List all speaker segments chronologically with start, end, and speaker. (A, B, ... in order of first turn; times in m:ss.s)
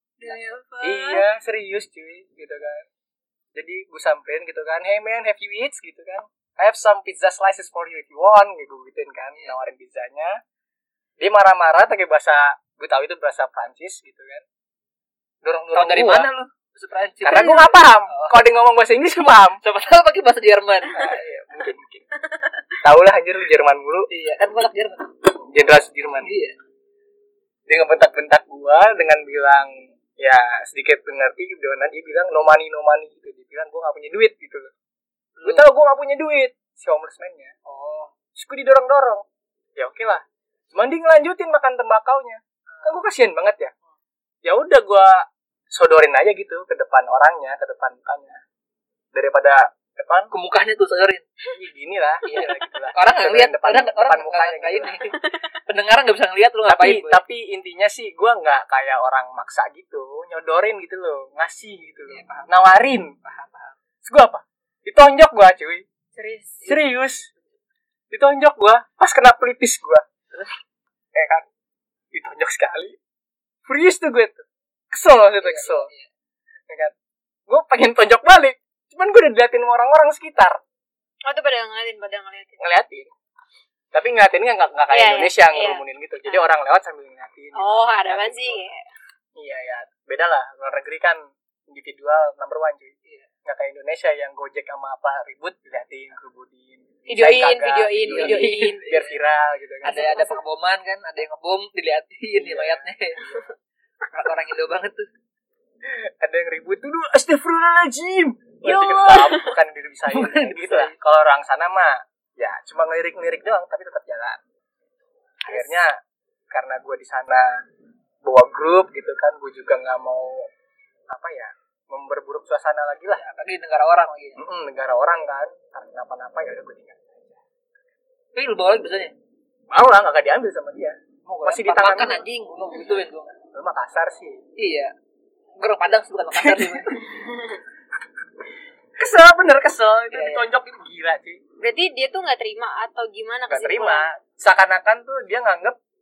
0:00.2-0:01.2 A
0:00.8-0:02.8 B
0:03.5-0:10.4 B
0:11.2-0:14.4 B
0:15.4-0:16.3 B
0:15.7-0:18.4 C
0:17.2-0:19.6 B
0:19.6-0:21.1 C
0:20.9-0:22.0 B
0:22.8-0:24.1 B
0:24.1-0:25.1 C
0:25.4-0:26.3 B
0:26.2-0:26.5 C
0:27.7-0:34.7 B
0:35.4-0:35.7 C
0:35.4-0:37.5 B
0:37.6-0:38.1 C
0:38.3-0:39.2 B
0:39.8-0:43.7 B
0:42.7-0:43.0 C
0:44.4-0:48.4 B
0:49.1-0:50.3 B
0:50.3-0:51.2 C
0:51.5-0:54.9 B
0:52.2-0:57.2 C
0:56.7-1:03.1 B
1:02.1-1:02.5 C
1:03.2-1:03.7 C
1:04.0-1:05.8 B
1:06.1-1:06.7 A
1:06.6-1:07.3 B
1:08.1-1:10.0 B
1:11.1-1:11.4 B
1:12.1-1:13.0 B
1:13.7-1:15.9 B
1:15.4-1:16.1 C
1:16.7-1:16.9 B
1:17.5-1:20.6 B
1:21.3-1:22.6 A
1:22.6-1:23.1 B
1:23.9-1:28.6 B
1:24.9-1:26.4 A
1:27.5-1:28.8 A
1:29.4-1:32.9 B
1:33.4-1:40.1 B
1:37.1-1:38.9 A
1:38.0-1:39.1 C
1:39.8-1:40.4 A
1:39.8-1:43.4 C
1:42.4-1:42.9 B
1:44.1-1:45.1 C
1:45.8-1:54.4 B
1:48.6-1:49.5 A
1:50.1-1:50.9 C
1:55.5-1:55.8 A
1:55.5-1:55.9 B
1:56.5-1:57.6 B
1:58.2-2:00.5 B
2:01.1-2:03.2 B
2:03.2-2:04.4 C
2:04.4-2:07.4 B
2:08.3-2:09.1 C
2:09.7-2:12.2 B
2:11.2-2:13.4 C
2:13.5-2:14.4 B
2:14.6-2:14.9 C
2:15.6-2:17.0 C
2:16.4-2:16.8 B
2:19.0-2:21.4 B
2:20.1-2:20.5 C
2:21.6-2:24.1 A
2:23.5-2:25.8 B